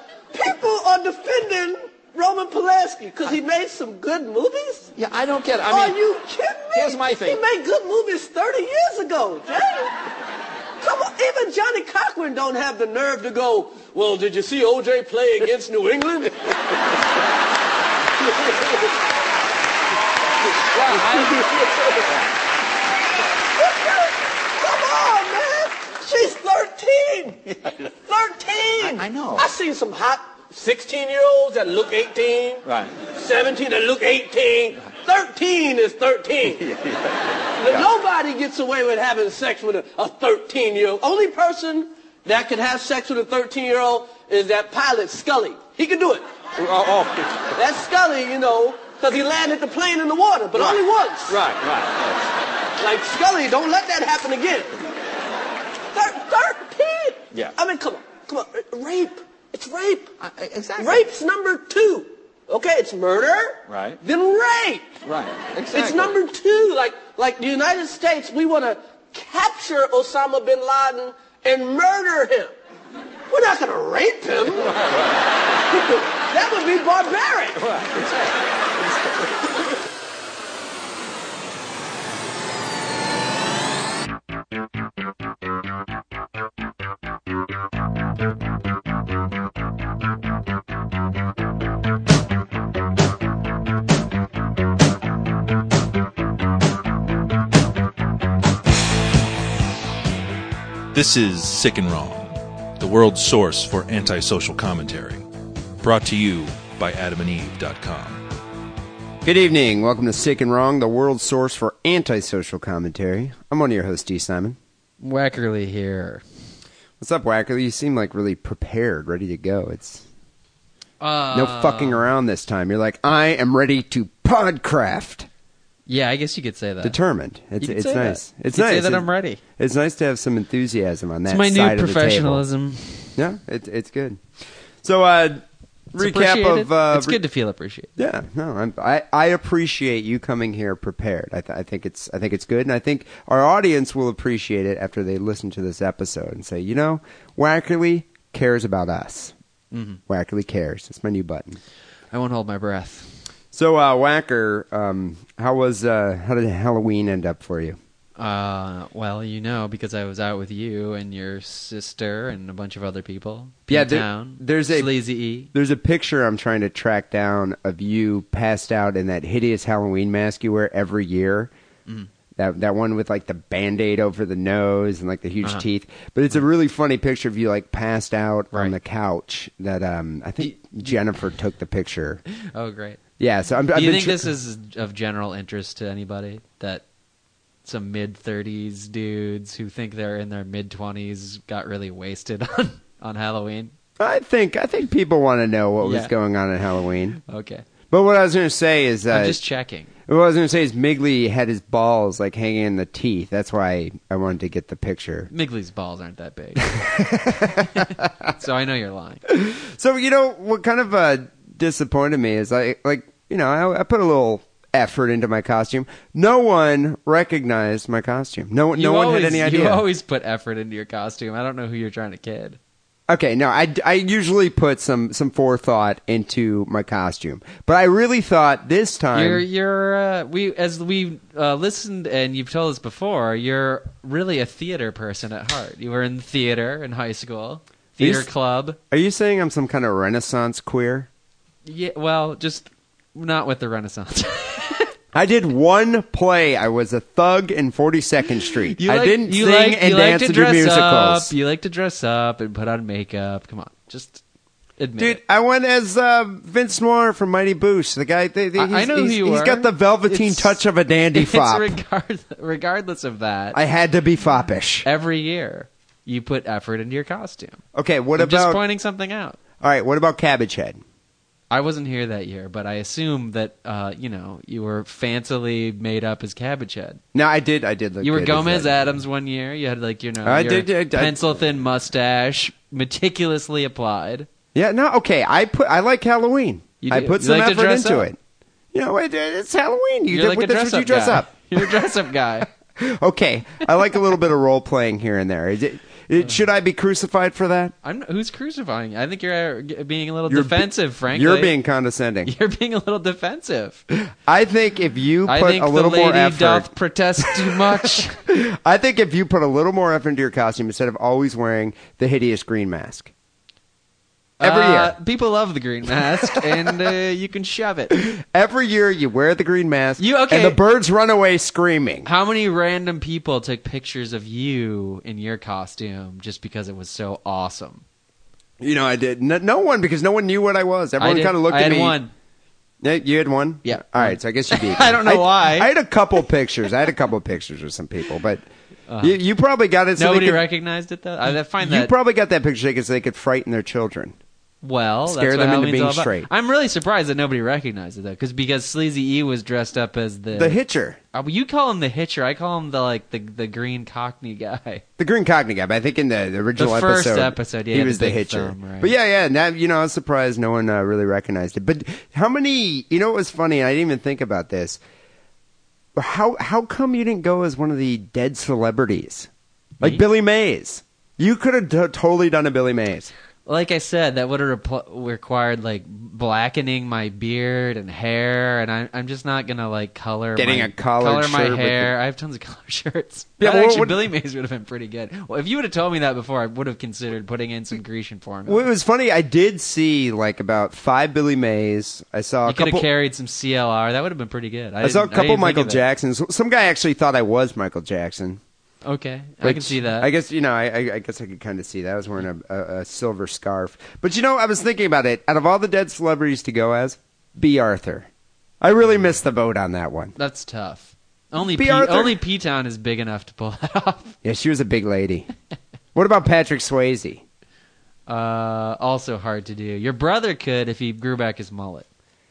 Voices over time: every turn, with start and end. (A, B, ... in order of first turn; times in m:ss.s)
0:00.3-0:04.9 A
0:05.0-0:06.0 B
0:05.6-0:10.0 A
0:06.8-0:07.4 B
0:10.8-0:16.5 A
0:18.4-0:18.7 A
0:20.7-0:21.4 B
0:20.9-0:22.1 A
0:23.6-0:36.7 A
0:28.8-0:29.4 B
0:32.6-0:32.9 B
0:36.6-0:37.2 B
0:37.6-0:46.2 A
0:46.6-0:47.5 B
0:47.6-0:51.4 A
0:50.6-0:52.3 B
0:52.8-0:54.7 A
0:55.9-1:00.1 A
1:00.2-1:01.1 B
1:00.8-1:04.9 A
1:03.7-1:04.0 B
1:05.0-1:06.2 B
1:05.7-1:12.5 A
1:13.3-1:14.8 A
1:15.7-1:17.7 A
1:17.7-1:18.2 B
1:40.9-1:45.3 C
1:45.8-1:48.2 C
1:49.2-1:54.6 D
1:55.0-1:56.2 E
1:57.0-2:00.1 D
2:01.0-2:02.1 E
2:01.3-2:05.3 D
2:05.9-2:07.0 E
2:06.8-2:12.4 D
2:07.6-2:09.4 E
2:11.3-2:13.2 E
2:13.2-2:14.2 D
2:14.8-2:17.2 D
2:16.0-2:17.9 E
2:18.0-2:29.3 D
2:29.7-2:30.0 E
2:30.1-2:31.6 D
2:32.1-2:33.1 E
2:33.5-2:37.8 D
2:38.2-2:45.5 E
2:43.7-2:45.0 D
2:45.5-2:51.5 D
2:52.4-3:02.2 D
3:02.6-3:03.0 E
3:03.2-3:04.3 D
3:03.7-3:06.8 E
3:07.6-3:13.7 E
3:14.0-3:17.2 D
3:15.8-3:16.1 E
3:17.3-3:17.6 E
3:17.9-3:19.4 D
3:19.1-3:19.9 E
3:20.1-3:25.3 D
3:25.3-3:26.8 E
3:26.6-3:28.3 D
3:27.6-3:29.2 E
3:29.3-3:39.9 D
3:38.7-3:42.6 E
3:43.1-3:49.4 D
3:49.1-3:58.8 E
3:58.0-3:58.3 D
3:58.9-4:01.1 D
4:01.6-4:04.9 E
4:05.1-4:11.3 D
4:08.7-4:14.2 E
4:14.8-4:15.2 E
4:15.0-4:21.8 D
4:18.6-4:20.6 E
4:21.2-4:23.6 E
4:23.5-4:24.9 D
4:24.8-4:27.6 E
4:27.7-4:28.6 D
4:28.2-4:29.4 E
4:29.6-4:30.8 D
4:31.5-4:37.0 E
4:37.1-4:39.0 D
4:38.0-4:44.3 E
4:40.2-4:41.5 D
4:44.5-4:48.2 D
4:46.8-4:48.1 E
4:48.7-4:52.0 D
4:50.1-4:52.5 E
4:52.8-4:57.8 D
4:57.8-5:01.6 E
5:00.3-5:02.3 D
5:02.2-5:03.8 E
5:04.1-5:13.1 D
5:05.3-5:08.2 E
5:14.4-5:15.0 D
5:14.4-5:18.0 E
5:16.3-5:16.8 D
5:17.9-5:22.1 D
5:20.0-5:20.6 E
5:22.0-5:27.8 E
5:28.6-5:32.0 D
5:31.0-5:32.1 E
5:32.8-5:38.4 D
5:33.6-5:35.7 E
5:38.9-5:39.2 E
5:39.0-5:40.4 D
5:40.0-5:41.9 E
5:41.6-5:44.2 D
5:44.6-5:50.6 E
5:45.1-5:46.3 D
5:50.3-5:51.0 D
5:51.1-5:54.8 E
5:55.0-6:04.8 D
5:56.6-5:58.9 E
6:06.0-6:09.3 D
6:09.8-6:13.1 D
6:13.5-6:28.7 E
6:20.4-6:21.9 D
6:23.4-6:24.1 D
6:28.5-6:32.9 D
6:32.5-6:35.8 E
6:34.8-6:38.4 D
6:38.8-6:40.1 E
6:39.4-6:48.1 D
6:48.6-6:50.2 D
6:50.2-6:54.2 E
6:51.4-6:52.2 D
6:54.2-6:55.3 D
6:56.0-6:57.2 D
6:58.1-7:01.9 E